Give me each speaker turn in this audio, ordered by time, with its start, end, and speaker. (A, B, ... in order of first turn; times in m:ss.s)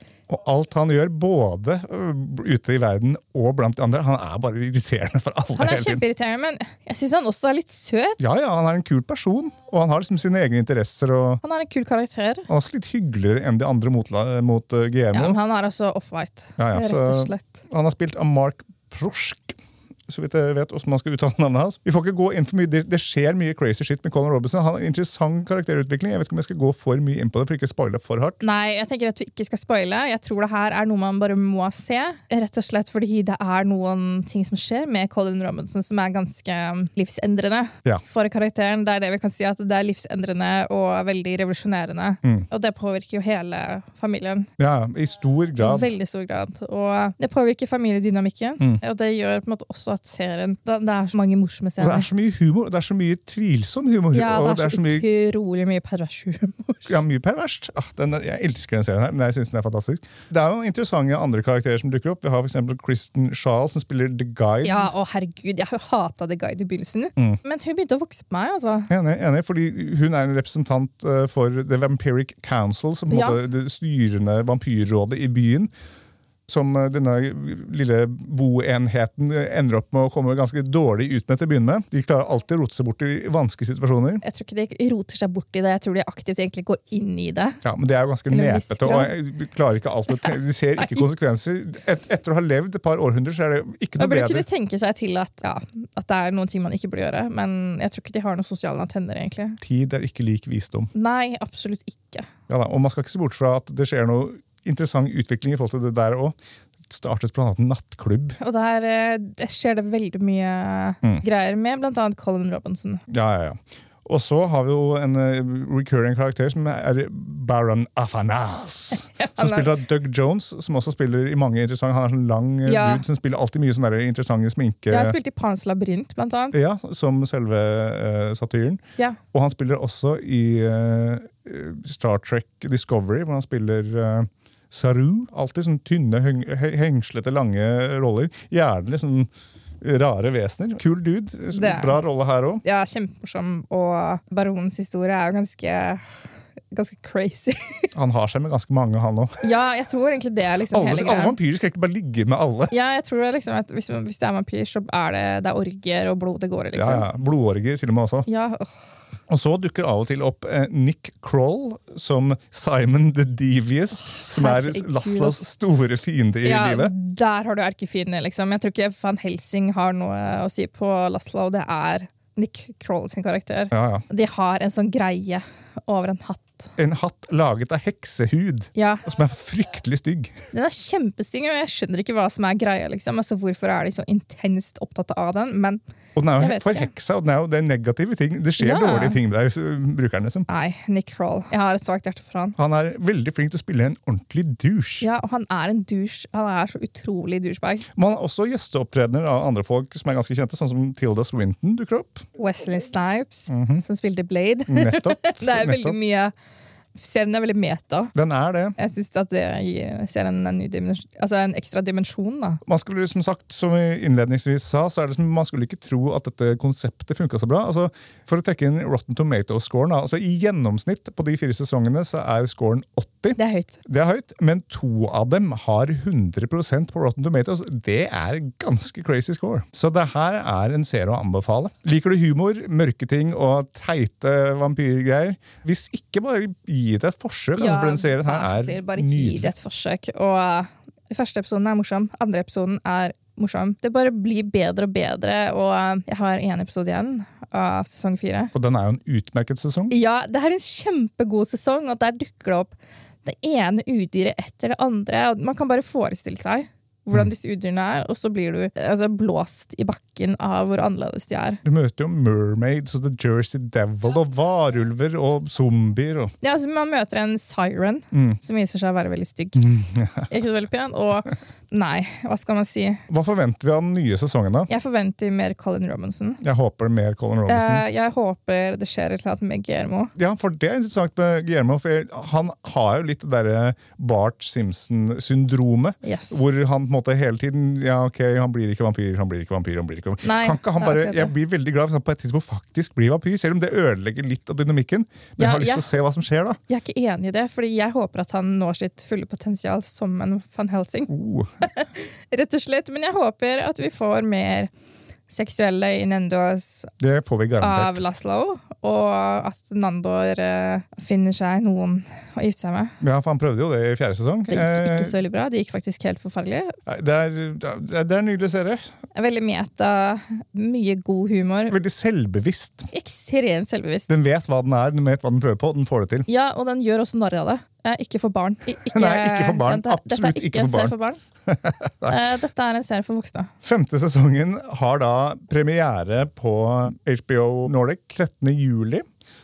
0:00.3-0:06.0 A
0:05.6-0:08.2 B
0:08.2-0:11.4 A
0:11.4-0:12.5 B
0:12.5-0:15.4 A
0:15.1-0:17.6 B
0:16.6-0:28.4 A
0:28.4-0:44.5 B
0:44.6-0:45.9 A
0:45.6-0:52.1 B
0:51.8-0:55.0 A
0:54.1-0:56.9 B
0:56.9-1:04.9 A
1:04.6-1:08.9 B
1:08.9-1:15.7 A
1:13.1-1:13.4 B
1:16.5-1:24.2 A
1:24.2-1:27.6 B
1:27.6-1:34.4 A
1:28.2-1:29.1 B
1:30.8-1:31.0 B
1:34.0-1:39.6 B
1:39.6-1:40.9 A
1:40.9-1:42.3 B
1:42.5-1:46.4 A
1:46.9-1:48.4 A
1:48.4-1:53.0 B
1:53.1-2:05.2 A
1:58.9-1:59.8 B
2:02.6-2:03.0 B
2:04.9-2:06.6 B
2:06.5-2:08.8 A
2:09.3-2:19.3 A
2:19.8-2:22.6 A
2:21.5-2:22.0 B
2:22.6-2:26.0 B
2:26.7-2:27.9 B
2:27.9-2:29.4 A
2:29.4-2:31.4 B
2:30.7-2:32.7 A
2:32.7-2:37.1 B
2:36.7-2:38.3 A
2:38.2-2:38.7 B
2:39.3-2:46.9 A
2:44.2-2:45.4 B
2:46.4-2:56.7 B
2:53.7-2:54.0 A
2:56.8-3:00.3 A
2:58.7-2:59.1 B
3:00.5-3:05.8 B
3:06.2-3:10.5 A
3:06.4-3:06.9 B
3:08.6-3:09.2 B
3:10.5-3:12.6 B
3:12.6-3:15.1 A
3:15.0-3:17.8 B
3:18.0-3:22.2 A
3:22.4-3:26.3 B
3:23.5-3:23.8 A
3:24.7-3:26.0 A
3:26.9-3:28.1 B
3:28.1-3:28.7 A
3:28.8-3:32.6 B
3:32.6-3:59.5 A
3:43.4-3:43.8 B
3:57.6-4:08.5 B
4:08.5-4:09.9 A
4:09.9-4:21.6 B
4:21.6-4:26.3 A
4:26.4-4:29.7 B
4:28.1-4:28.4 A
4:29.6-4:30.3 A
4:30.3-4:33.0 B
4:33.1-4:34.7 A
4:34.7-4:36.4 B
4:36.4-4:37.8 A
4:37.5-4:40.1 B
4:40.2-4:56.6 A
4:46.0-4:46.4 B
4:50.2-4:51.3 B
4:55.4-4:56.0 B
4:56.7-5:01.1 B
5:01.1-5:01.5 A
5:01.6-5:04.7 B
5:05.3-5:06.9 B
5:07.0-5:08.0 A
5:07.6-5:13.0 B
5:13.0-5:15.2 A
5:14.5-5:16.7 B
5:16.9-5:18.9 A
5:19.1-5:21.8 B
5:21.7-5:22.9 A
5:22.9-5:24.1 B
5:24.1-5:26.3 A
5:26.3-5:31.2 B
5:28.9-5:30.9 A
5:31.5-5:32.2 A
5:32.1-5:33.5 B
5:33.6-5:39.0 A